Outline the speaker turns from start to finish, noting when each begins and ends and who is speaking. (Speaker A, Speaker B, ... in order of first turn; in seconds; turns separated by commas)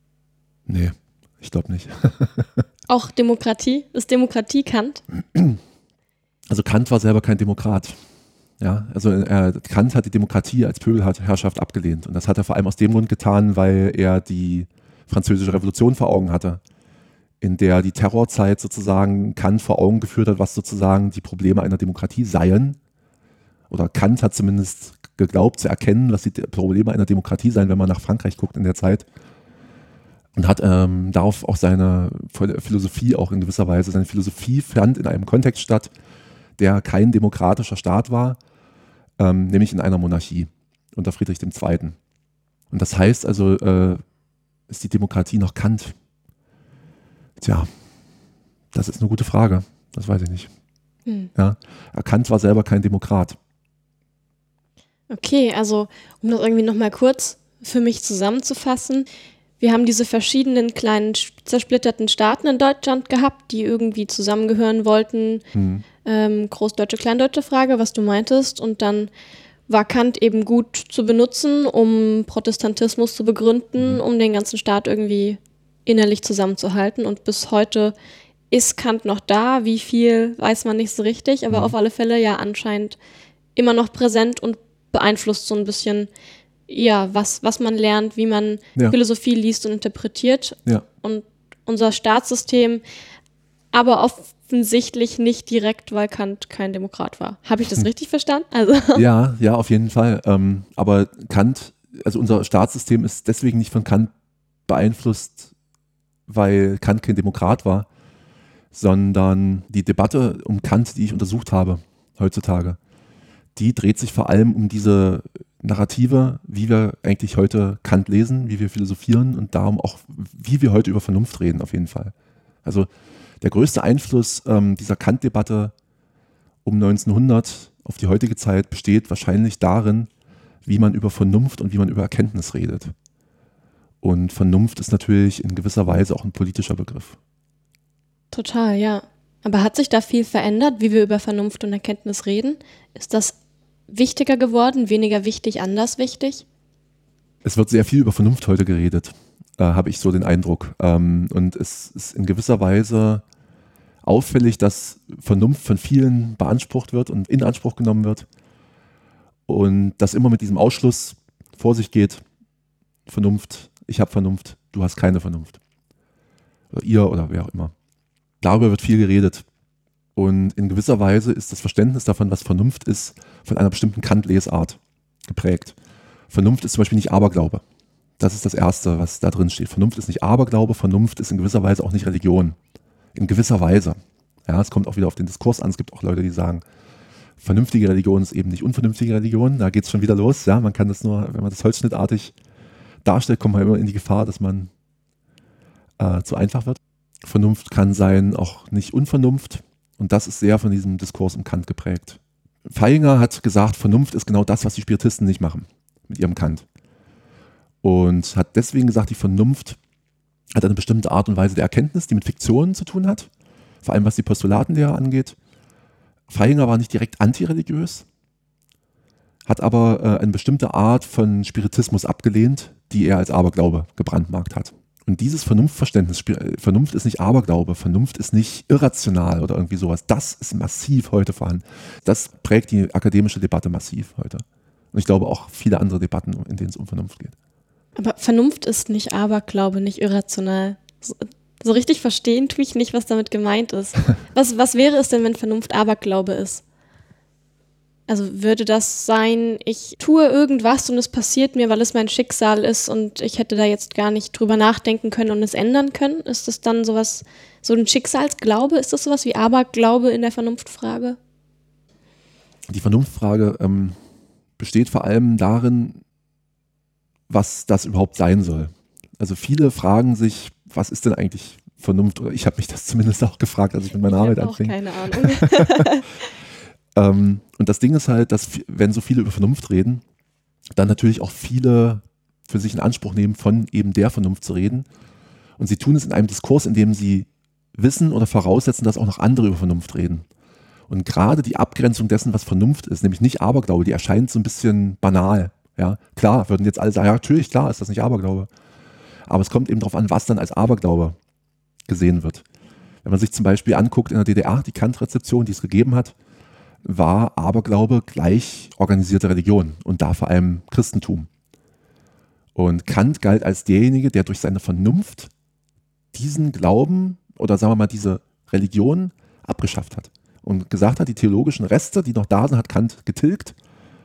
Speaker A: 0.7-2.6, Speaker B: 2.9-5.0, Speaker A: 6.5-8.0, Speaker A: 8.6-16.6, Speaker A: 17.4-22.8, Speaker A: 23.7-29.1, Speaker A: 30.4-35.9, Speaker A: 36.6-38.4, Speaker A: 39.2-42.0, Speaker A: 42.7-44.0, Speaker A: 44.7-45.9, Speaker A: 47.4-47.7, Speaker A: 48.7-50.5, Speaker B: 51.0-51.3, Speaker A: 51.3-53.4, Speaker B: 55.1-59.1, Speaker B: 59.6-65.4, Speaker A: 65.5-65.8, Speaker B: 66.0-69.1, Speaker B: 69.7-78.0, Speaker B: 78.5-83.0, Speaker B: 83.5-86.1, Speaker B: 86.7-92.8, Speaker B: 93.7-99.0, Speaker A: 98.9-104.1, Speaker A: 104.7-105.5, Speaker A: 106.3-107.9, Speaker A: 108.7-112.8, Speaker A: 113.5-122.1, Speaker A: 123.4-125.7, Speaker A: 126.6-130.1, Speaker A: 130.6-132.9, Speaker A: 134.0-137.2, Speaker B: 138.3-143.3, Speaker B: 143.9-146.4, Speaker A: 147.4-153.2, Speaker A: 154.0-158.2, Speaker A: 159.5-162.2, Speaker A: 163.1-165.6, Speaker A: 166.7-167.7, Speaker A: 168.4-169.4, Speaker A: 170.2-175.7, Speaker A: 176.3-177.6, Speaker A: 178.2-182.6, Speaker A: 183.1-186.6, Speaker A: 187.4-192.3, Speaker A: 193.0-194.7, Speaker A: 196.0-206.6, Speaker A: 207.8-209.8, Speaker A: 210.5-213.3, Speaker A: 213.8-215.3, Speaker A: 216.3-218.1, Speaker A: 219.4-237.3, Speaker B: 237.9-246.6, Speaker B: 248.1-261.2, Speaker A: 262.7-263.9, Speaker A: 264.6-266.0, Speaker A: 267.3-275.9, Speaker B: 274.0-276.1, Speaker A: 276.9-280.0, Speaker A: 280.7-284.9, Speaker A: 285.6-290.2, Speaker A: 290.9-298.5, Speaker A: 299.3-301.2, Speaker A: 301.9-302.4, Speaker A: 303.0-306.1, Speaker A: 306.8-311.3, Speaker A: 312.5-315.3, Speaker A: 316.1-323.5